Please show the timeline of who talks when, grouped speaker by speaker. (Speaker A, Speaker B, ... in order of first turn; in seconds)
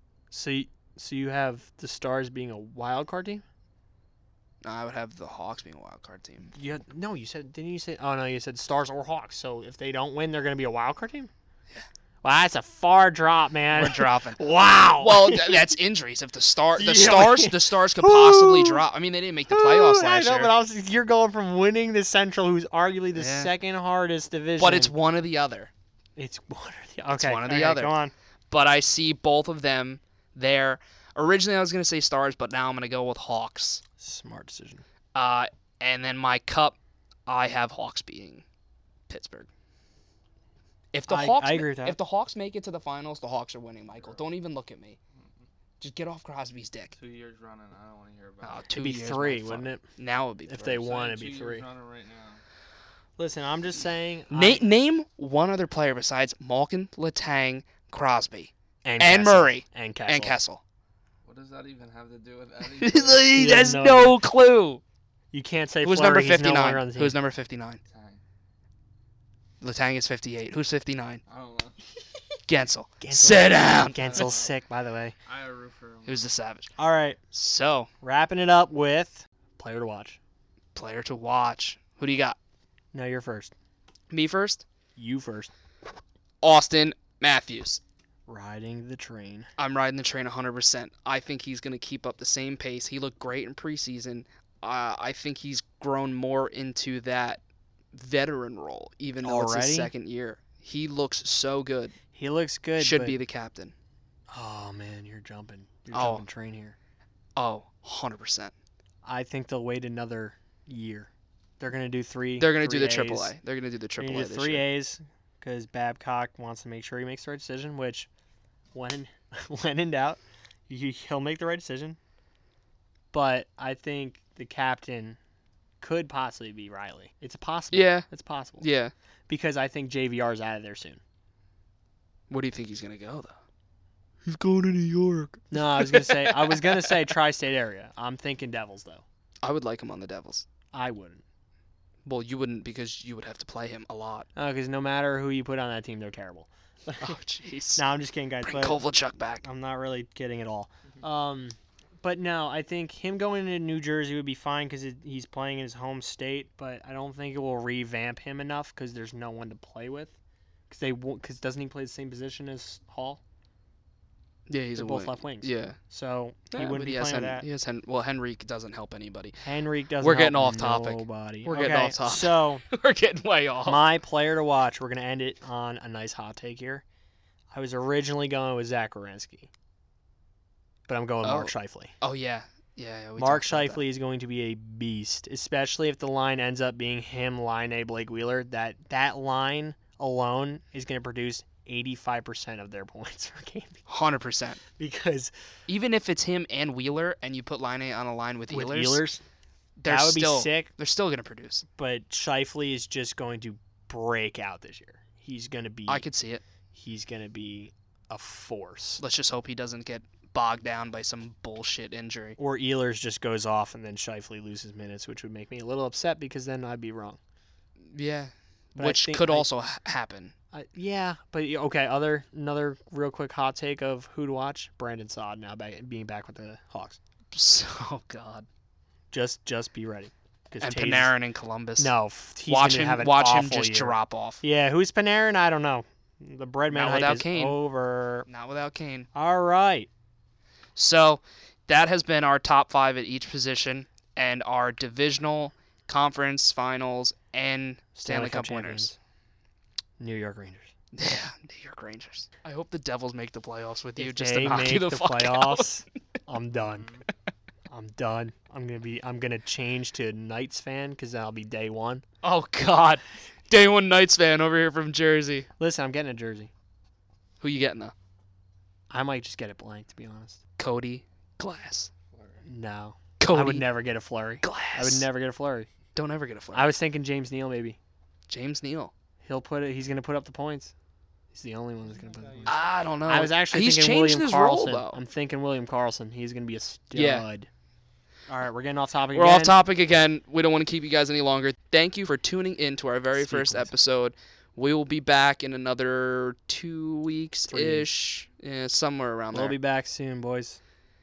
Speaker A: 0.3-3.4, 6.5-11.3, 12.2-15.8, 16.8-18.9, 19.5-24.9, 26.2-28.1, 34.0-34.8, 41.1-42.0, 48.8-49.9, 50.5-51.6, 53.2-54.7, 58.8-60.4, 63.3-64.2, 65.3-67.2, 73.0-75.2, 76.8-77.2, 78.0-80.2, 82.9-83.5, 85.0-85.5, 88.3-89.5, 99.2-99.9, 102.1-103.2, 104.3-106.8, 109.0-113.3, 114.0-118.1, 118.7-122.0, 123.1-125.2, 125.8-128.7, 129.3-131.0, 135.5-139.0, 140.7-141.2, 144.4-147.2, 147.8-148.8, 149.4-160.2, 160.7-163.2, 164.8-167.4, 169.4-172.6, 173.7-176.8, 177.5-179.5, 180.9-181.9, 183.2-193.8, 194.8-195.3, 198.5-199.2, 199.9-200.7, 201.8-206.1, 206.7-209.0, 212.4-217.2, 218.8-219.5, 220.5-227.0, 229.1-231.1, 231.8-238.3, 239.1-239.9, 247.9-248.9, 250.0-250.7, 254.0-256.9, 257.7-262.0, 265.6-266.5, 268.9-270.4, 272.4-275.7, 276.5-277.8, 279.2-280.7, 281.3-282.6, 283.1-287.5, 288.3-289.6, 293.1-293.7, 297.5-297.9, 299.3-300.6
Speaker B: 4.6-6.5, 13.7-14.4, 15.0-20.5, 23.1-23.5, 24.6-25.7, 27.2-27.9, 28.5-33.8, 35.1-36.8, 37.3-38.4, 39.1-39.5, 40.9-45.0, 45.8-46.9, 48.4-50.7, 54.3-60.6, 62.8-64.8, 65.8-67.8, 69.6-71.2, 72.5-74.1, 76.1-76.7, 77.3-77.9, 80.8-82.4, 84.1-84.7, 86.4-87.8, 89.6-97.4, 97.9-102.0, 102.8-103.7, 105.9-106.2, 107.4-108.5, 112.4-114.6, 127.7-128.1, 128.6-128.9, 132.3-133.4, 134.3-137.0, 139.4-140.5, 142.1-144.3, 147.0-147.8, 148.4-149.4, 164.5-165.8, 166.5-169.4, 170.0-173.8, 181.2-183.8, 193.9-194.6, 195.7-199.0, 199.8-201.7, 205.9-206.4, 209.0-212.4, 217.9-220.3, 227.3-228.5, 230.6-231.9, 232.5-234.4, 236.7-237.6, 238.3-239.1, 240.8-248.9, 250.9-255.7, 262.2-265.5, 267.4-267.9, 270.6-271.9, 273.2-273.7, 274.4-275.1, 275.9-276.7, 278.3-278.9, 282.5-285.0, 286.9-287.2, 289.1-299.6
Speaker C: 43.9-44.2, 45.1-45.5, 47.0-48.7, 50.6-52.4, 61.2-63.4, 67.9-68.2, 71.3-71.8, 74.0-74.5, 75.3-76.2, 272.1-272.4, 282.0-282.5